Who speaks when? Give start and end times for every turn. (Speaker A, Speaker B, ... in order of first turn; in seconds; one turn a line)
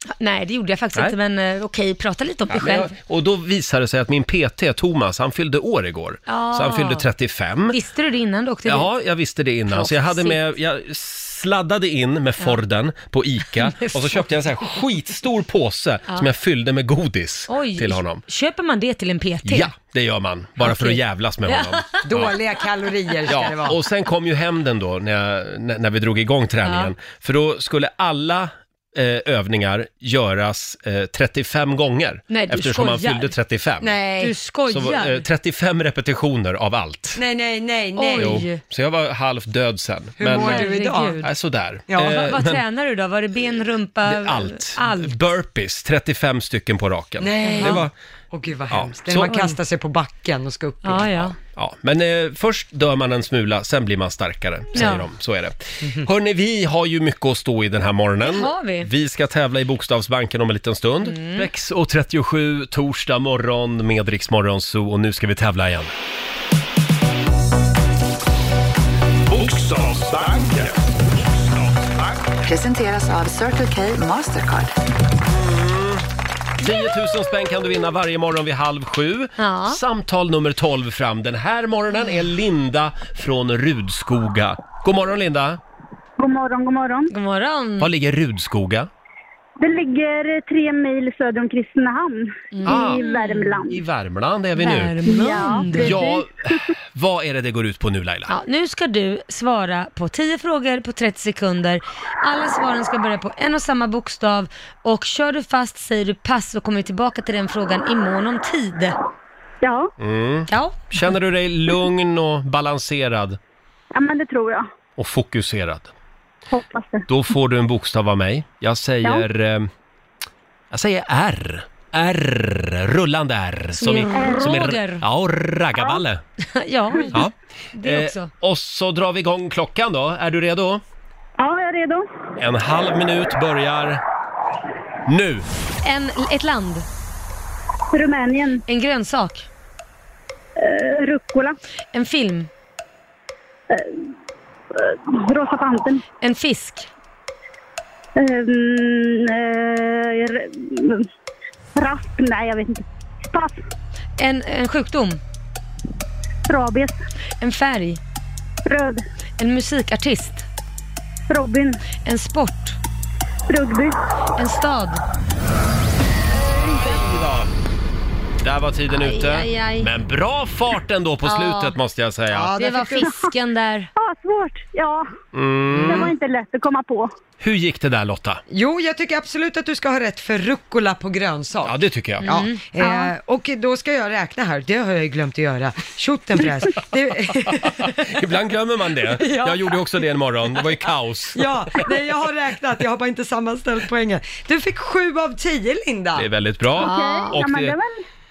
Speaker A: 0.2-2.9
Speaker B: 2.5-7.8
Speaker A: 6.3-7.0
Speaker A: 7.7-8.9
Speaker B: 8.7-18.2
Speaker A: 9.7-10.4
Speaker A: 13.6-14.2
Speaker A: 17.5-19.7
Speaker B: 19.4-22.3
Speaker A: 20.6-22.0
Speaker C: 22.0-23.8
Speaker B: 23.3-33.9
Speaker A: 26.6-26.9
Speaker A: 32.3-33.3
Speaker A: 33.8-35.2
Speaker C: 33.9-34.3
Speaker B: 34.7-37.2
Speaker C: 37.1-38.5
Speaker A: 38.0-38.6
Speaker B: 38.1-42.6
Speaker C: 40.2-41.2
Speaker A: 40.3-41.3
Speaker C: 41.9-42.1
Speaker A: 42.0-45.1
Speaker B: 44.0-47.9
Speaker C: 47.2-51.1
Speaker A: 47.4-47.9
Speaker B: 48.7-49.4
Speaker A: 49.3-49.5
Speaker A: 50.8-51.4
Speaker B: 51.2-65.9
Speaker A: 54.7-55.1
Speaker A: 58.2-58.9
Speaker A: 61.0-61.5
Speaker D: 69.3-70.8
Speaker D: 71.5-71.9
Speaker E: 72.4-74.7
Speaker B: 75.3-76.0
Speaker B: 76.6-85.6
Speaker A: 79.4-79.8
Speaker F: 86.2-87.1
Speaker A: 87.1-87.9
Speaker B: 87.8-88.9
Speaker F: 89.6-93.8
Speaker A: 92.5-93.5
Speaker B: 92.7-95.0
Speaker A: 94.6-96.0
Speaker F: 95.1-96.2
Speaker B: 95.7-98.3
Speaker A: 98.3-109.0
Speaker F: 109.6-109.9
Speaker B: 110.0-113.4
Speaker A: 110.5-110.8
Speaker F: 113.9-114.7
Speaker B: 115.0-115.9
Speaker F: 116.5-117.0
Speaker B: 117.1-119.7
Speaker B: 120.7-126.2
Speaker A: 123.7-125.0
Speaker A: 126.5-128.3
Speaker B: 127.1-130.8
Speaker F: 131.4-132.1
Speaker B: 132.4-134.0
Speaker B: 135.1-135.4
Speaker A: 135.8-136.8
Speaker F: 137.9-138.6
Speaker A: 138.7-139.5
Speaker F: 140.6-141.6
Speaker A: 141.9-142.5
Speaker F: 144.8-146.0
Speaker A: 146.2-146.9
Speaker F: 148.2-151.1
Speaker F: 151.8-153.6
Speaker A: 154.2-155.2
Speaker F: 156.5-156.9
Speaker A: 157.4-158.0
Speaker F: 158.7-159.0
Speaker A: 159.4-160.4
Speaker F: 161.3-161.8
Speaker A: 162.0-162.8
Speaker F: 163.5-164.0
Speaker A: 164.4-165.0
Speaker B: 168.4-172.5
Speaker A: 168.9-169.9
Speaker A: 171.2-171.8
Speaker C: 172.3-173.1
Speaker A: 172.5-173.9
Speaker F: 174.0-175.1
Speaker B: 175.3-176.1
Speaker F: 175.9-177.1
Speaker B: 177.4-178.4
Speaker C: 178.5-188.0
Speaker B: 181.6-182.3
Speaker A: 182.2-183.1
Speaker B: 187.8-191.4
Speaker C: 189.2-189.7
Speaker C: 191.3-196.2
Speaker B: 196.2-197.8
Speaker A: 196.8-197.4
Speaker F: 196.8-197.9